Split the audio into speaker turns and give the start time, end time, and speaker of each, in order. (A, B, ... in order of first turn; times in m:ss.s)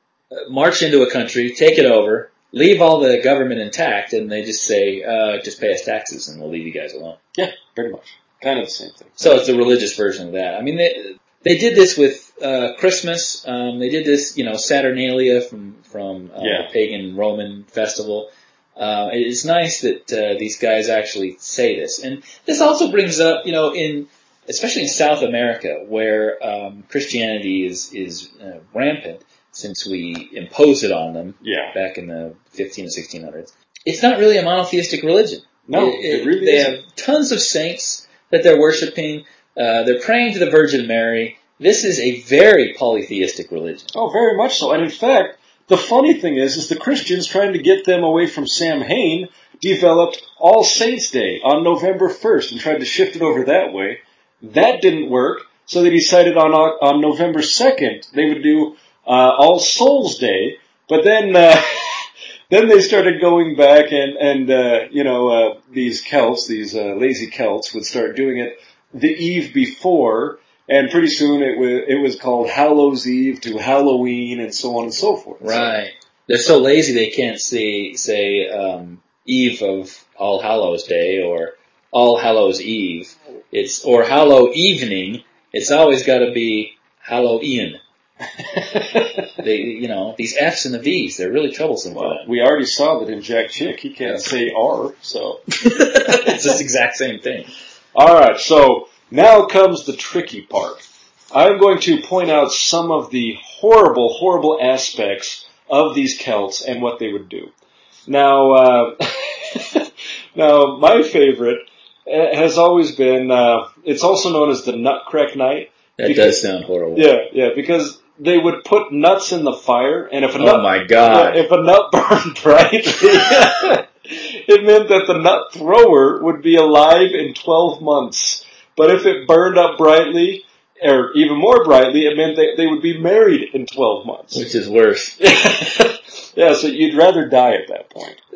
0:00.3-0:07.2 A
0:07.3-0:09.2 B
0:09.2-0:43.9 A
0:16.4-0:16.7 B
0:31.4-0:31.7 B
0:35.6-0:36.8 B
0:43.9-1:15.8 B
1:15.4-1:27.8 A
1:28.5-1:29.2 B
1:29.4-1:32.3 A
1:31.9-1:35.4 B
1:35.6-1:37.5 A
1:36.1-1:36.4 B
1:37.9-1:47.5 B
1:48.1-1:56.4 B
1:56.0-1:57.1 A
1:56.9-2:14.4 B
2:00.4-2:01.4 A
2:14.3-2:15.2 A
2:15.2-2:18.2 B